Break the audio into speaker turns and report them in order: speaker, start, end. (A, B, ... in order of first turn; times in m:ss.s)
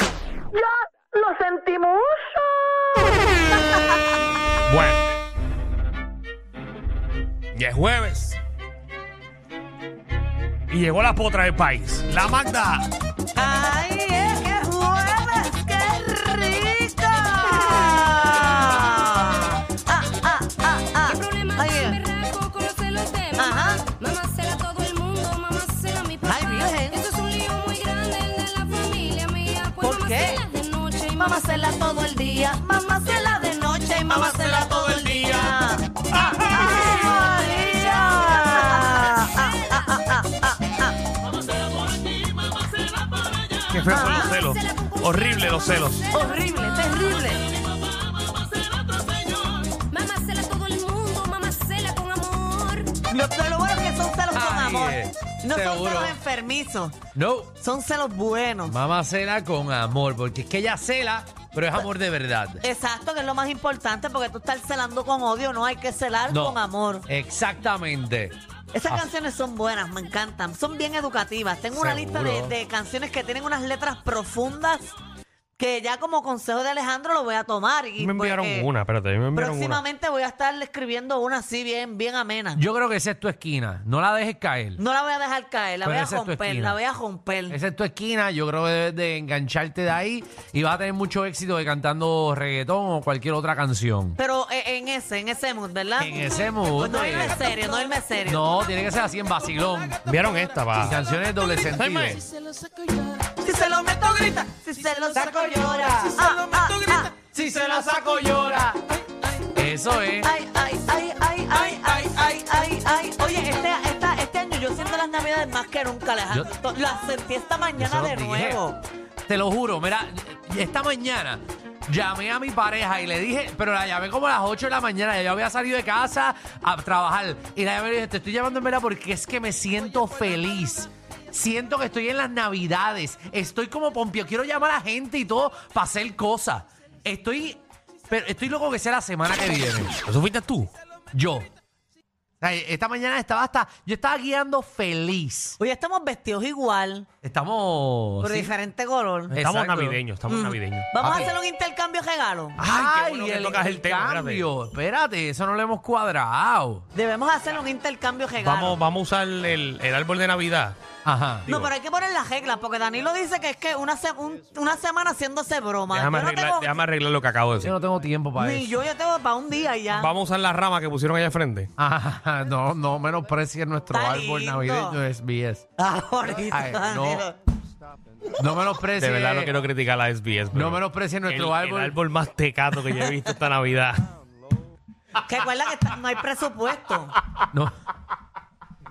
0:01.2-0:03.2 A
0:03.5-0:04.2 B
0:04.7-0:05.0 C
0:07.5-0:08.4 C
0:10.7-0:12.9 C
0:13.4-0:22.0 B
0:21.1-0:26.3 D
0:23.4-0:23.8 B
0:26.2-0:27.0 B
0:26.9-0:31.1 D
0:29.8-0:30.4 B
0:31.2-0:41.0 B
0:34.1-0:35.6 C
0:36.1-0:36.9 C
0:43.5-0:46.1 C
0:43.9-0:44.4 B
0:44.2-0:45.6 D
0:46.1-0:47.5 B
0:48.8-0:52.9 D
0:53.0-0:57.0 B
0:54.3-0:56.2 E
0:57.1-0:57.6 E
0:57.6-0:58.8 B
0:58.6-1:02.6 E
1:02.6-1:07.0 B
1:06.3-1:08.4 E
1:08.7-1:15.0 B
1:11.7-1:12.5 E
1:15.6-1:18.7 B
1:18.0-1:19.8 C
1:19.4-1:22.6 B
1:22.6-1:24.8 E
1:24.8-1:27.6 B
1:25.8-1:26.8 E
1:27.5-1:34.2 E
1:34.2-1:38.4 B
1:36.0-1:37.4 E
1:38.2-1:40.0 E
1:40.0-1:41.0 C
1:40.8-1:42.2 E
1:41.7-1:42.2 C
1:43.4-1:47.2 B
1:45.1-1:46.3 E
1:47.2-1:48.8 E
1:49.5-1:50.3 E
1:50.2-1:58.8 B
1:57.8-1:58.6 E
1:59.3-2:19.9 E
2:20.0-2:20.7 C
2:21.1-2:21.5 E
2:22.4-2:25.6 E
2:25.6-2:27.1 B
2:27.2-2:28.5 E
2:28.2-2:29.3 B
2:29.3-2:30.0 E
2:29.4-2:30.9 C
2:30.3-2:32.6 B
2:31.0-2:31.4 E
2:32.6-2:34.5 C
2:32.6-2:36.8 E
2:36.9-2:38.8 B
2:38.4-2:40.8 C
2:41.0-2:41.5 E
2:41.5-2:41.7 C
2:41.5-2:46.8 B
2:45.9-2:47.7 C
2:47.6-2:48.8 E
2:48.4-2:50.1 B
2:49.9-2:51.7 C
2:51.8-2:55.6 E
2:53.9-2:55.0 B
2:55.8-2:57.4 B
2:56.5-2:57.3 E
2:58.3-2:59.5 E
2:59.0-3:04.1 C
3:00.5-3:02.0 E
3:05.2-3:07.2 B